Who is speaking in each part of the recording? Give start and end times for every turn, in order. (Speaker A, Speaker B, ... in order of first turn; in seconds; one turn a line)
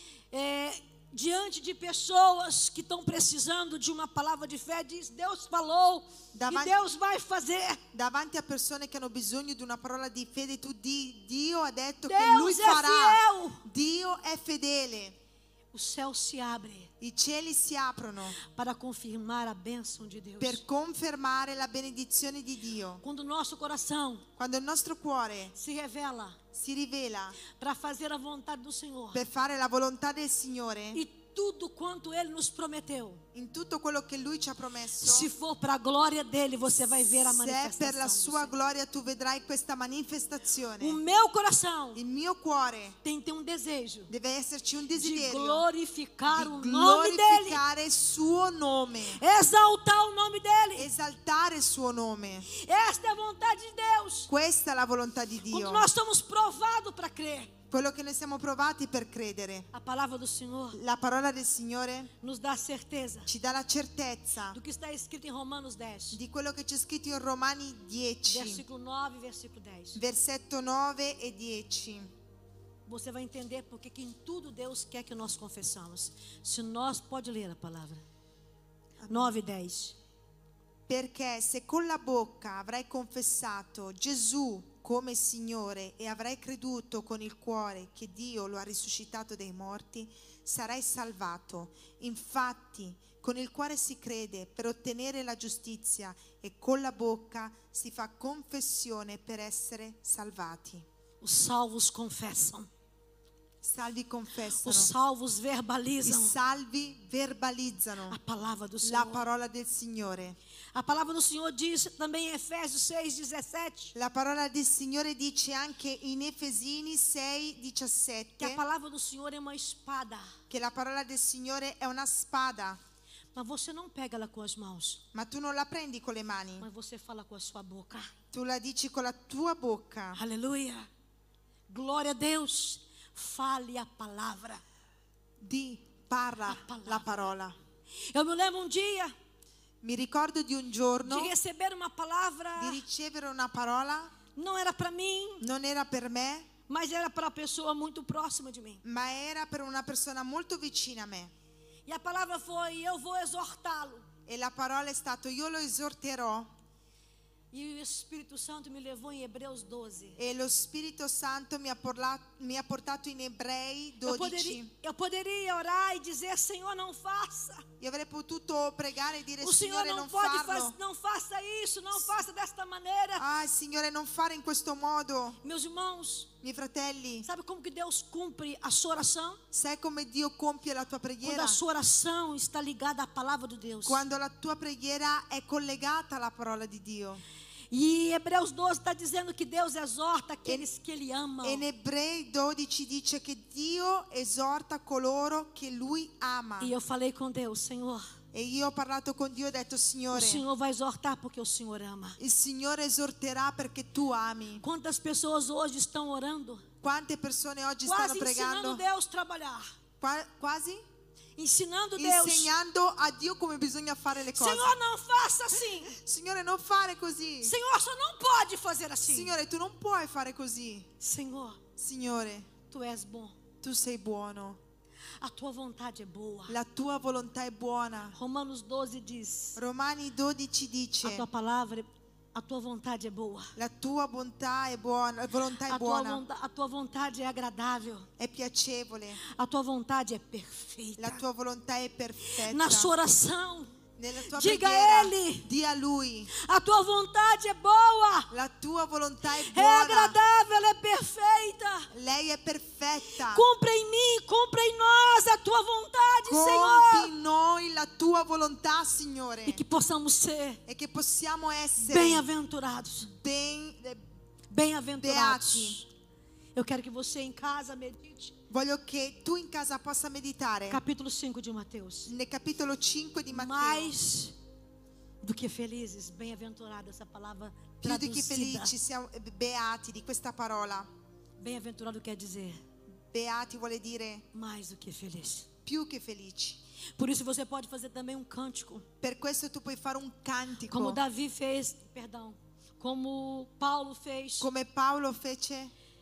Speaker A: 0.3-7.8
Speaker B: 6.3-6.8
Speaker B: 7.9-15.2
Speaker A: 12.1-13.6
Speaker A: 15.7-16.9
Speaker B: 17.0-18.4
Speaker A: 18.4-20.6
Speaker B: 20.4-23.0
Speaker A: 23.0-24.2
Speaker B: 24.4-25.5
Speaker A: 25.5-26.4
Speaker B: 26.5-27.4
Speaker A: 27.5-29.2
Speaker B: 29.1-31.0
Speaker A: 30.9-33.2
Speaker B: 33.3-35.3
Speaker A: 35.0-38.5
Speaker B: 37.0-41.0
Speaker A: 40.8-42.0
Speaker B: 41.9-43.0
Speaker A: 43.0-44.1
Speaker B: 44.1-45.6
Speaker A: 44.9-47.6
Speaker B: 46.3-49.2
Speaker A: 49.2-50.9
Speaker B: 50.8-52.5
Speaker A: 52.5-54.3
Speaker B: 54.3-55.9
Speaker A: 55.5-57.5
Speaker B: 57.7-59.7
Speaker A: 59.7-60.8
Speaker B: 60.7-62.1
Speaker A: 62.2-63.3
Speaker B: 63.3-64.6
Speaker A: 64.5-66.2
Speaker B: 66.1-68.6
Speaker A: 68.3-70.0
Speaker B: 69.9-72.1
Speaker A: 72.8-78.0
Speaker B: 79.0-79.3
Speaker A: 79.1-79.9
Speaker B: 80.9-100.8
Speaker A: 101.2-102.7
Speaker B: 103.6-104.9
Speaker A: 104.6-106.3
Speaker B: 106.0-108.2
Speaker A: 108.1-109.2
Speaker B: 108.8-110.4
Speaker A: 110.7-113.9
Speaker B: 113.9-118.6
Speaker A: 118.4-120.3
Speaker B: 120.5-122.8
Speaker A: 123.3-125.0
Speaker B: 125.1-126.7
Speaker A: 126.6-128.1
Speaker B: 128.3-130.2
Speaker A: 130.1-130.9
Speaker A: 131.7-134.6
Speaker B: 135.4-137.6
Speaker A: 136.4-137.3
Speaker A: 138.1-139.1
Speaker B: 139.8-141.3
Speaker A: 141.0-142.8
Speaker B: 142.6-144.1
Speaker A: 144.3-145.4
Speaker B: 145.4-146.5
Speaker A: 146.7-148.8
Speaker B: 148.8-151.3
Speaker A: 151.9-154.1
Speaker B: 154.3-156.5
Speaker A: 157.5-160.2
Speaker B: 160.2-164.7
Speaker A: 164.0-167.7
Speaker B: 167.8-170.8
Speaker A: 169.4-173.3
Speaker B: 173.2-175.4
Speaker A: 175.4-176.3
Speaker B: 176.4-177.3
Speaker A: 177.2-179.4
Speaker B: 179.5-181.6
Speaker A: 181.2-184.0
Speaker B: 183.8-187.2
Speaker A: 187.7-191.6
Speaker B: 191.4-196.7
Speaker A: 196.6-198.1
Speaker B: 198.3-200.4
Speaker A: 200.1-202.2
Speaker B: 202.2-204.6
Speaker A: 204.6-206.6
Speaker B: 206.8-208.8
Speaker A: 207.8-209.7
Speaker B: 210.0-210.8
Speaker A: 211.4-212.5
Speaker B: 212.0-214.7
Speaker A: 214.3-215.9
Speaker B: 215.8-217.6
Speaker A: 217.4-219.3
Speaker B: 219.1-220.9
Speaker A: 221.0-221.6
Speaker B: 221.8-222.5
Speaker A: 222.7-223.3
Speaker B: 223.6-224.6
Speaker A: 225.2-226.6
Speaker B: 226.5-228.2
Speaker A: 228.1-229.6
Speaker B: 229.6-231.2
Speaker A: 231.0-233.5
Speaker B: 233.6-236.2
Speaker A: 235.7-238.1
Speaker B: 238.2-239.2
Speaker A: 239.2-241.2
Speaker B: 241.0-242.9
Speaker A: 242.4-243.7
Speaker B: 244.0-246.3
Speaker A: 244.3-245.5
Speaker A: 246.3-248.3
Speaker B: 248.3-250.2
Speaker A: 249.5-251.9
Speaker B: 251.9-253.4
Speaker A: 253.3-257.1
Speaker B: 256.2-259.6
Speaker A: 259.4-260.6
Speaker B: 260.7-262.2
Speaker A: 261.8-263.1
Speaker B: 263.1-264.0
Speaker A: 264.5-265.9
Speaker B: 265.0-265.8
Speaker A: 266.5-268.4
Speaker B: 268.5-270.8
Speaker A: 270.7-272.1
Speaker B: 272.1-273.9
Speaker A: 273.3-274.4
Speaker A: 275.2-278.7
Speaker B: 277.8-280.9
Speaker A: 281.4-282.6
Speaker B: 283.1-284.2
Speaker A: 284.3-285.5
Speaker B: 285.6-286.6
Speaker A: 287.0-288.8
Speaker B: 289.0-291.0
Speaker A: 290.7-294.5
Speaker B: 294.4-295.7